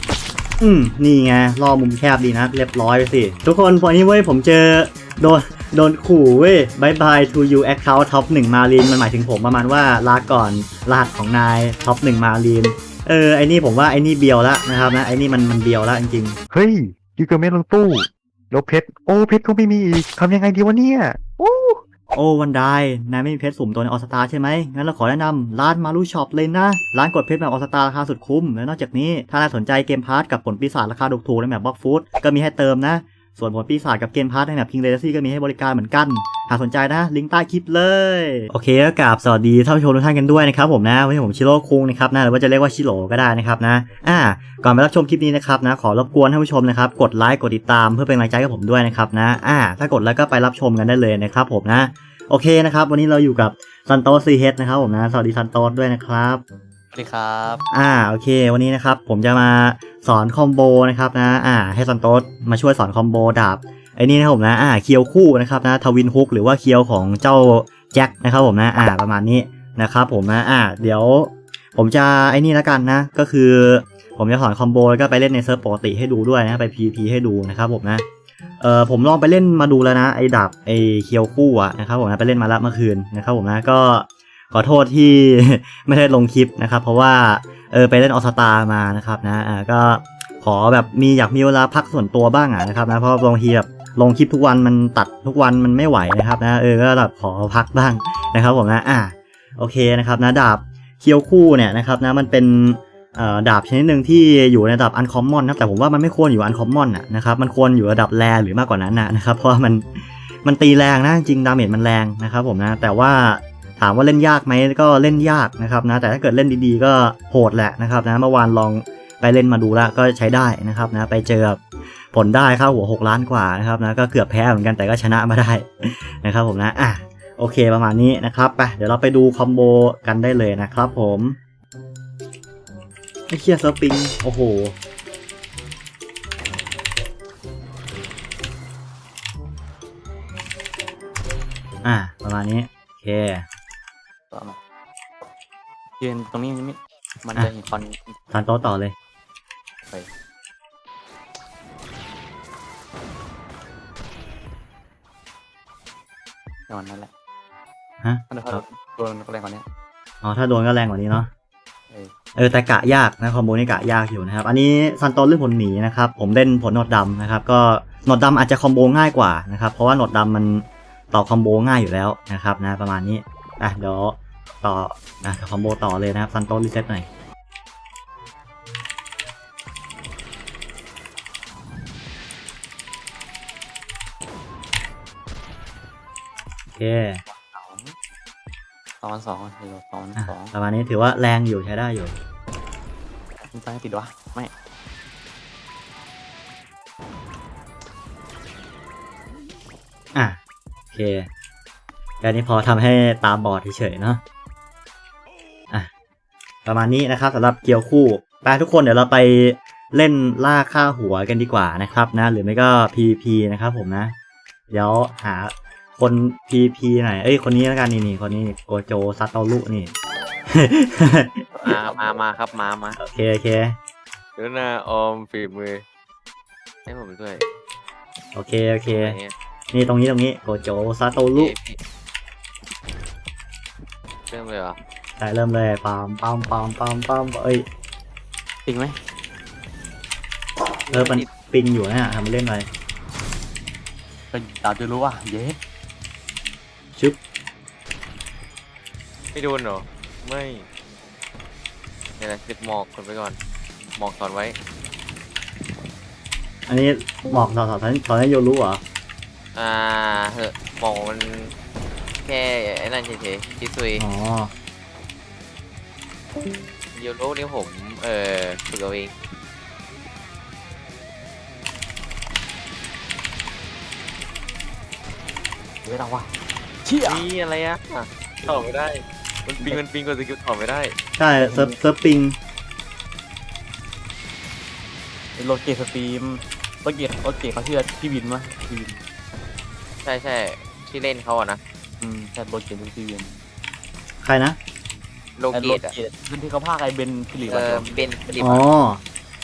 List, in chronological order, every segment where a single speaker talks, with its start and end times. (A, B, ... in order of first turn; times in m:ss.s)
0:00.6-0:16.4 A
0:16.5-0:21.8 B
0:22.1-0:56.4 A
0:56.9-0:57.6 C
0:57.7-1:18.0 A
1:18.6-2:11.4 A
2:13.3-2:14.8 A
2:21.8-2:23.4 A
2:24.3-2:24.6 C
2:26.0-2:28.2 C
2:28.3-2:28.9 A
2:36.7-2:37.1 C
2:38.0-2:38.6 A
2:38.3-2:39.7 C
2:40.2-2:41.3 A
2:42.4-2:57.1 A
3:06.7-3:07.2 A
3:07.3-3:08.0 C
3:09.0-3:10.5 C
3:10.2-3:12.2 A
3:13.4-3:14.5 C
3:20.9-3:21.3 A
3:22.2-3:24.2 A
3:26.6-3:34.1 A
3:34.7-3:39.9 A
3:40.5-3:41.7 A
3:41.6-3:43.0 D
3:43.0-3:43.8 A
3:44.4-3:45.8 D
3:46.9-3:47.4 D
3:48.3-3:49.2 A
3:48.9-3:49.3 D
3:49.7-3:51.5 A
3:51.3-3:51.8 D
3:54.3-3:54.8 D
3:55.2-3:57.7 A
3:58.7-3:59.0 C
4:00.9-4:01.3 D
4:00.9-4:02.7 A
4:04.3-4:05.6 C
4:09.3-4:10.6 D
4:12.2-4:13.4 D
4:14.0-4:14.6 D
4:16.7-4:18.8 A
4:19.6-4:21.5 D
4:22.2-4:24.0 D
4:24.0-4:24.5 A
4:26.9-4:29.1 D
4:35.8-4:36.3 C
4:36.8-4:37.2 C
4:37.0-4:41.0 D
4:39.5-4:39.8 C
4:41.2-4:42.4 A
4:41.4-4:41.8 C
4:45.4-4:49.0 C
4:50.0-4:51.6 D
4:52.0-4:53.3 C
4:54.2-4:54.6 A
4:55.4-4:55.9 D
4:55.5-4:58.4 C
4:57.4-4:58.6 D
4:58.4-4:59.0 A